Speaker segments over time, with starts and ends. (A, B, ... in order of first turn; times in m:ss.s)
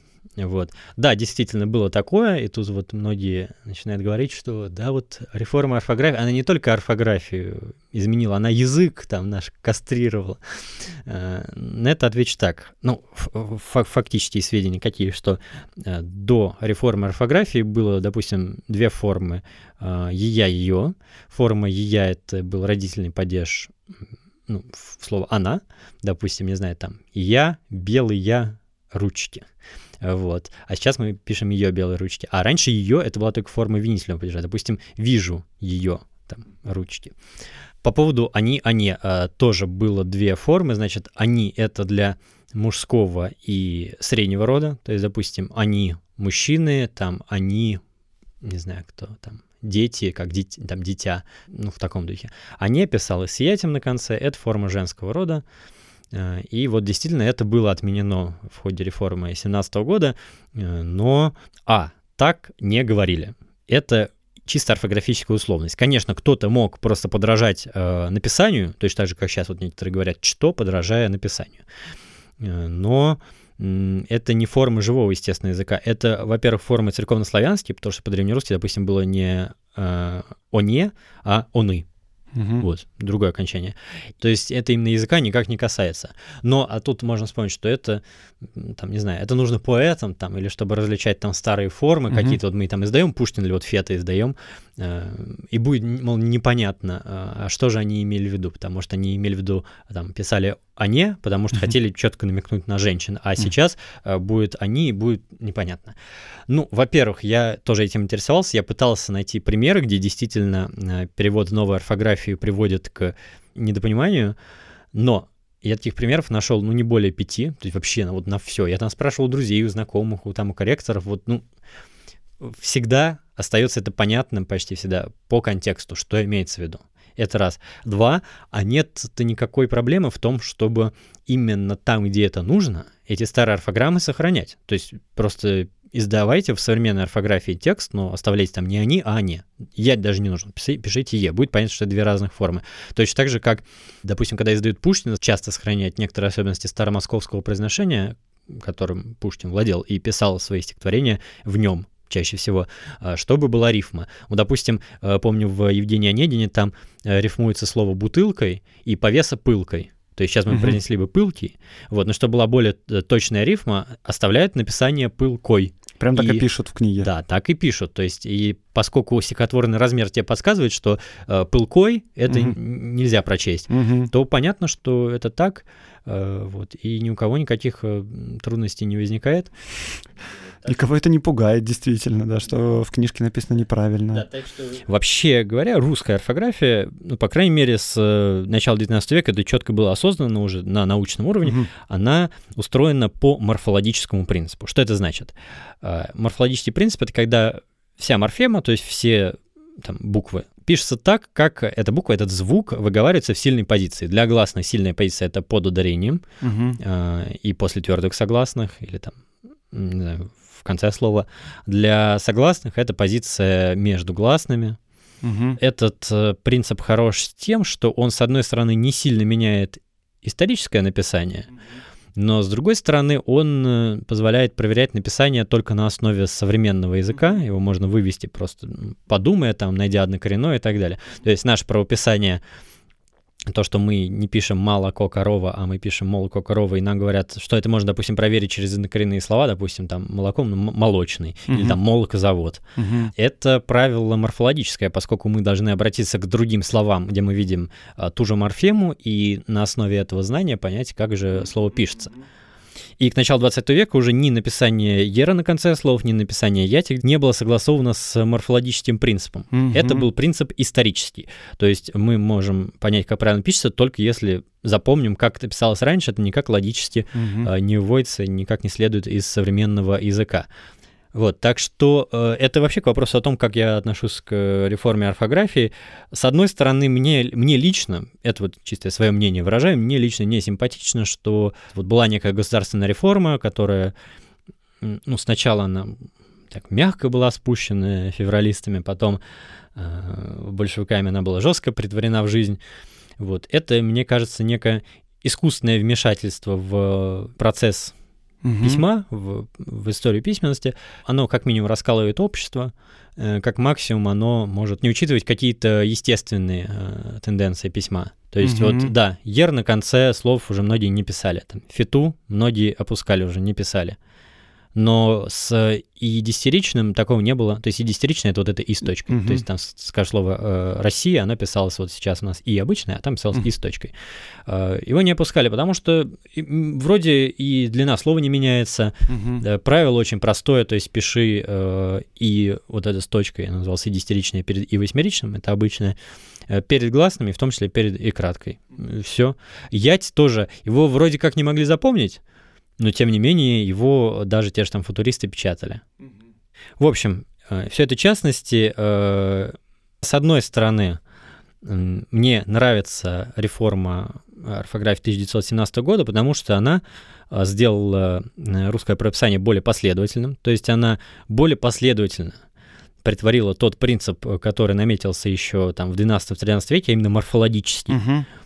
0:00.4-0:23.7 A
0:24.5-0:29.5 A
0:30.0-0:37.1 A
0:37.8-0:47.8 A
0:48.4-0:55.4 A
0:56.1-1:11.6 A
1:12.4-1:21.8 A
1:22.3-1:22.6 B
1:22.6-1:46.0 A
1:32.1-1:32.4 B
1:46.5-1:54.4 A
1:54.9-2:01.4 A
2:02.4-2:46.4 A
2:40.5-2:40.8 B
2:46.0-2:47.1 B
2:47.0-2:59.5 A
2:52.3-2:52.6 B
2:53.7-2:54.1 B
3:00.6-3:04.2 B
3:04.1-3:26.2 A
3:11.4-3:11.7 B
3:26.4-3:26.8 B
3:26.8-3:29.2 A
3:29.7-3:34.8 A
3:35.2-3:35.6 B
3:35.6-3:41.5 A
3:42.2-3:52.4 A
3:53.5-4:02.6 A
4:01.5-4:01.8 B
4:02.8-4:03.1 B
4:03.1-4:12.1 A
4:13.0-4:30.5 A
4:19.5-4:20.1 B
4:27.1-4:27.5 B
4:31.1-4:43.9 A
4:44.8-4:49.2 A
4:49.8-4:52.6 A
4:53.2-4:57.9 A
4:58.4-4:58.8 B
4:58.6-5:14.0 A
5:08.4-5:08.9 B
5:14.7-5:23.9 A
5:19.1-5:19.4 B
5:24.4-5:36.0 A
5:29.1-5:29.4 B
5:36.5-5:42.2 A
5:42.8-5:45.8 A
5:46.8-5:51.0 A
5:51.6-6:02.4 A
6:03.0-6:08.0 A
6:07.9-6:08.2 B